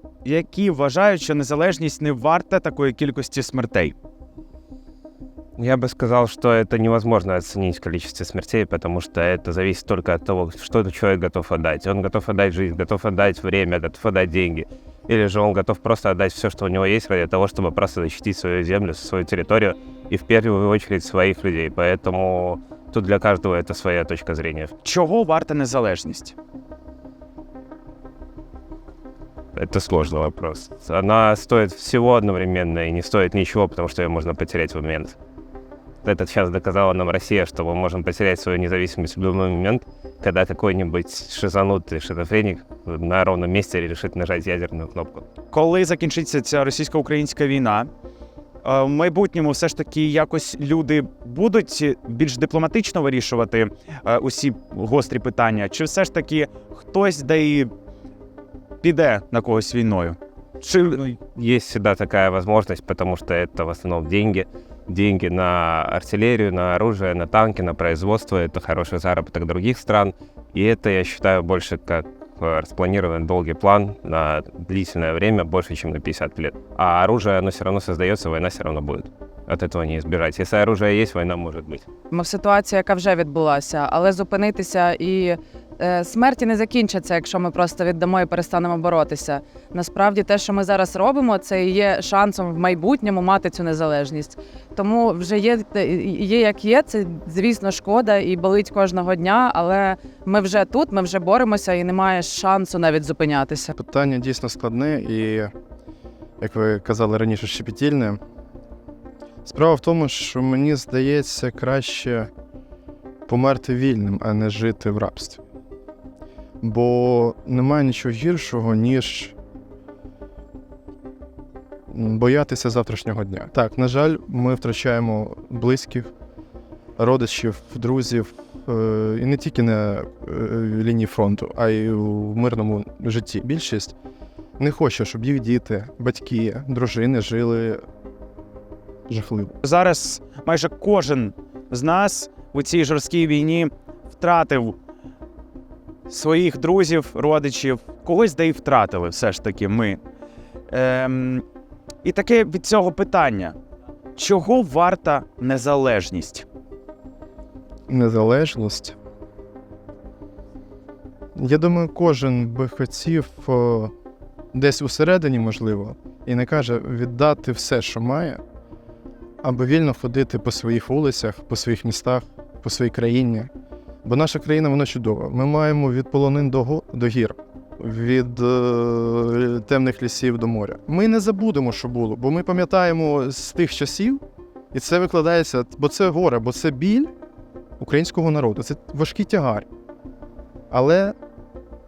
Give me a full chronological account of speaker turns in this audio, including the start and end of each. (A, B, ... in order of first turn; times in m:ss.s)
0:00.2-0:03.9 A
0:05.6-0:24.7 B
0:24.8-0:26.4 A
0:29.6-0:35.2 B
0:36.0-0:45.2 B
0:45.5-0:47.9 A
0:48.6-0:57.7 A
0:58.8-1:01.1 A
1:01.1-1:21.8 B
1:22.1-1:43.7 C
1:43.8-1:45.5 D
1:46.4-1:48.2 D
1:49.4-1:52.3 D
1:53.3-1:55.4 D
1:56.6-1:59.3 D
2:01.9-2:06.1 D
2:07.0-2:13.9 D
2:14.6-2:17.8 D
2:19.1-2:19.6 D
2:19.6-2:24.8 A
2:26.1-2:30.0 A
2:30.7-2:31.4 A
2:32.0-2:33.6 A
2:34.2-2:36.4 A
2:37.9-2:39.0 D
2:41.3-2:43.9 D
2:44.5-2:48.4 D
2:49.4-2:53.5 D
2:54.0-3:04.2 D
3:04.7-3:07.1 D
3:07.8-3:09.7 D
3:10.7-3:11.2 D